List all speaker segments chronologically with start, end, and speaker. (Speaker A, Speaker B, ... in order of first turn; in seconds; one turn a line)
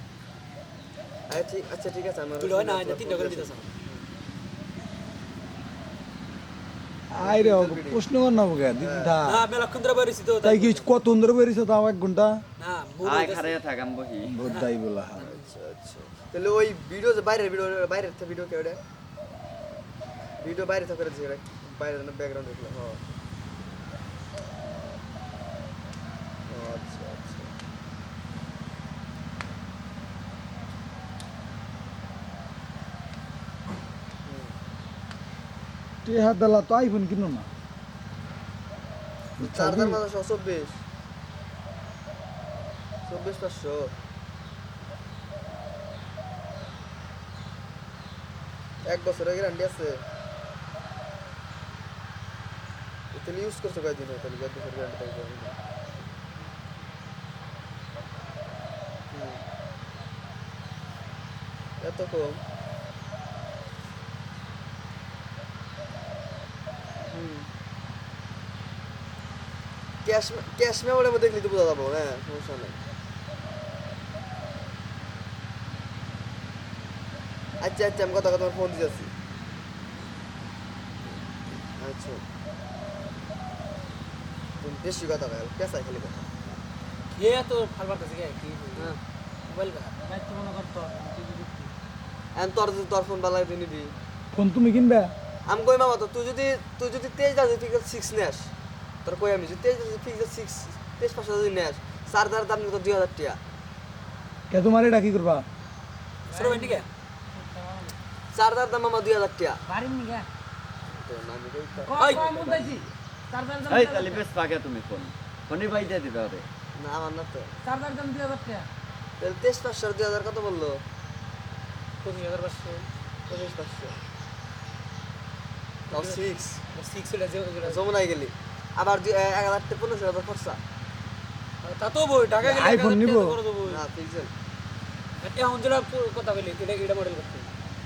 Speaker A: 1.3-4.0
Speaker B: 2.4-3.7
Speaker C: 7.1-9.4
Speaker A: 7.1-8.1
Speaker A: 8.8-9.2
Speaker B: 9.2-10.9
Speaker C: 10.4-12.4
Speaker B: 12.6-13.6
Speaker D: 13.0-14.3
Speaker C: 14.3-15.3
Speaker B: 14.4-14.7
Speaker A: 15.2-18.8
Speaker B: 15.2-15.5
Speaker A: 20.4-23.0
Speaker A: 26.5-27.5
Speaker A: 34.3-34.5
Speaker C: 36.0-37.5
Speaker C: 39.4-40.0
Speaker A: 39.4-40.8
Speaker A: 43.0-43.9
Speaker A: 48.8-50.0
Speaker A: 53.1-55.6
Speaker A: 59.1-59.5
Speaker A: 61.8-62.4
Speaker A: 67.1-67.5
Speaker A: 70.0-72.8
Speaker A: 77.6-79.1
Speaker A: 81.7-82.2
Speaker A: 84.6-86.6
Speaker B: 87.1-90.0
Speaker E: 90.0-91.7
Speaker A: 92.3-94.0
Speaker C: 94.3-95.1
Speaker A: 95.5-98.5
Speaker A: 99.0-103.4
Speaker C: 104.5-105.5
Speaker B: 106.3-106.9
Speaker E: 106.3-108.0
Speaker A: 108.3-109.6
Speaker E: 109.7-110.3
Speaker A: 110.9-112.9
Speaker E: 111.8-114.3
Speaker B: 111.9-112.3
Speaker D: 113.7-116.5
Speaker A: 116.8-117.6
Speaker E: 117.6-118.7
Speaker A: 119.2-120.8
Speaker B: 122.0-122.9
Speaker A: 123.3-124.0
Speaker B: 125.9-126.2
Speaker A: 125.9-126.6
Speaker B: 126.7-127.8
Speaker A: 127.6-130.6
Speaker B: 131.6-133.8
Speaker C: 132.4-133.4
Speaker A: 133.7-134.3
Speaker B: 135.2-137.5